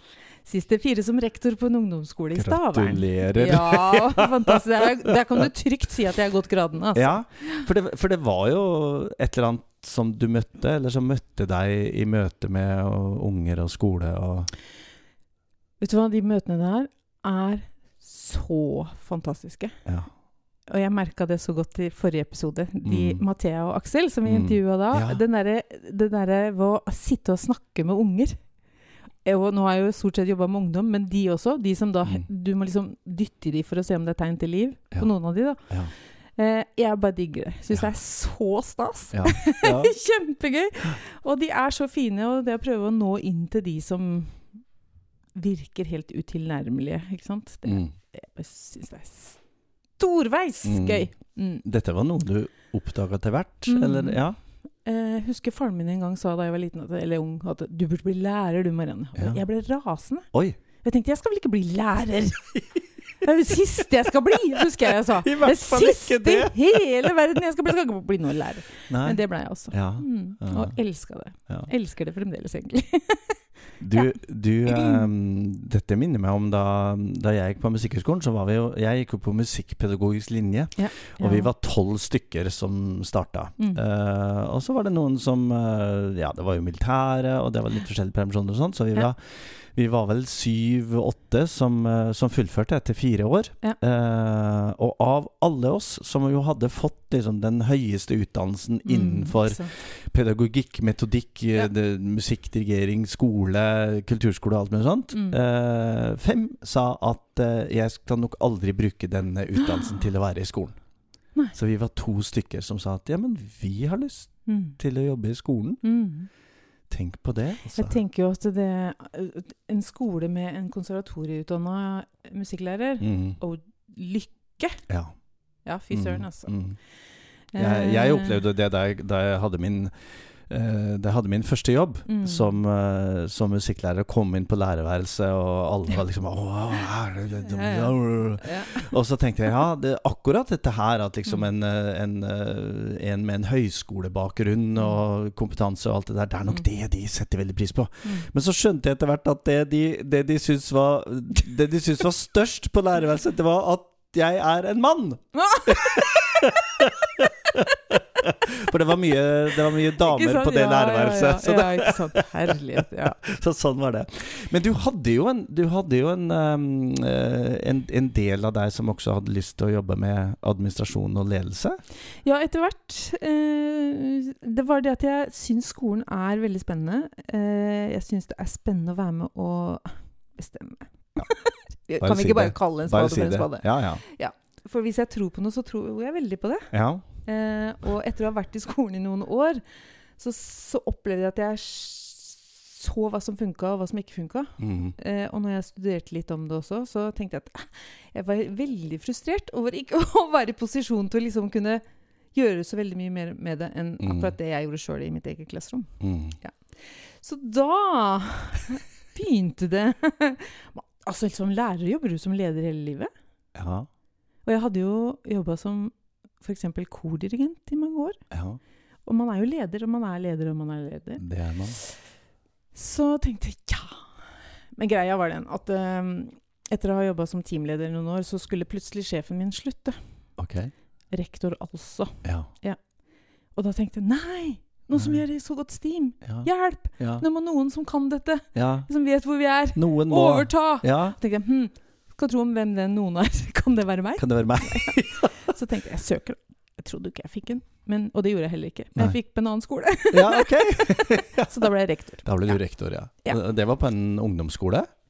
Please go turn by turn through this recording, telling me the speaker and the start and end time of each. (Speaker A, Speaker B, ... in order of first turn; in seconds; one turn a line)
Speaker A: 0.4-7.6
Speaker B: 2.3-5.1
Speaker B: 6.9-14.5
Speaker A: 15.8-19.8
Speaker A: 20.7-28.4
Speaker B: 22.8-23.2
Speaker B: 24.2-25.2
Speaker A: 29.2-35.6
Speaker A: 36.4-44.4
Speaker B: 39.1-39.9
Speaker A: 45.3-49.4
Speaker B: 47.6-47.9
Speaker A: 50.0-51.6
Speaker B: 50.6-51.1
Speaker B: 51.6-54.4
Speaker A: 53.7-54.2
Speaker A: 54.8-60.3
Speaker B: 59.1-59.4
Speaker B: 60.3-60.6
Speaker A: 60.8-62.5
Speaker A: 63.2-73.4
Speaker B: 65.1-67.1
Speaker B: 68.9-70.7
Speaker B: 73.8-110.8
Speaker A: 74.7-75.1
Speaker A: 80.8-81.5
Speaker A: 98.8-99.7
Speaker A: 105.1-105.4
Speaker A: 109.6-110.0
Speaker B: 111.5-115.8
Speaker A: 114.5-114.8
Speaker A: 115.8-116.3
Speaker B: 116.9-118.0
Speaker A: 117.7-124.8
Speaker B: 123.0-123.4
Speaker A: 125.6-126.5
Speaker B: 125.9-126.8
Speaker A: 127.5-128.4
Speaker B: 127.5-129.9
Speaker B: 130.5-162.2
Speaker A: 132.1-132.6
Speaker A: 137.4-138.9
Speaker A: 155.3-156.5
Speaker A: 160.0-163.2
Speaker B: 162.8-171.8
Speaker A: 172.2-186.7
Speaker B: 182.0-184.0
Speaker B: 186.7-187.0
Speaker A: 187.2-189.6
Speaker A: 190.2-201.8
Speaker B: 194.6-194.9
Speaker A: 202.3-206.5
Speaker B: 204.0-204.3
Speaker B: 206.0-206.3
Speaker A: 207.2-213.1
Speaker B: 213.5-213.9
Speaker A: 214.4-218.2
Speaker B: 218.3-218.6
Speaker A: 219.1-221.2
Speaker B: 221.2-221.8
Speaker A: 222.7-224.0
Speaker A: 224.8-230.0
Speaker B: 230.4-230.7
Speaker A: 231.1-232.8
Speaker B: 232.2-232.5
Speaker A: 233.6-252.6
Speaker B: 237.0-237.2
Speaker B: 238.5-238.9
Speaker B: 239.7-241.2
Speaker B: 244.2-245.3
Speaker B: 250.1-251.6
Speaker B: 252.2-254.9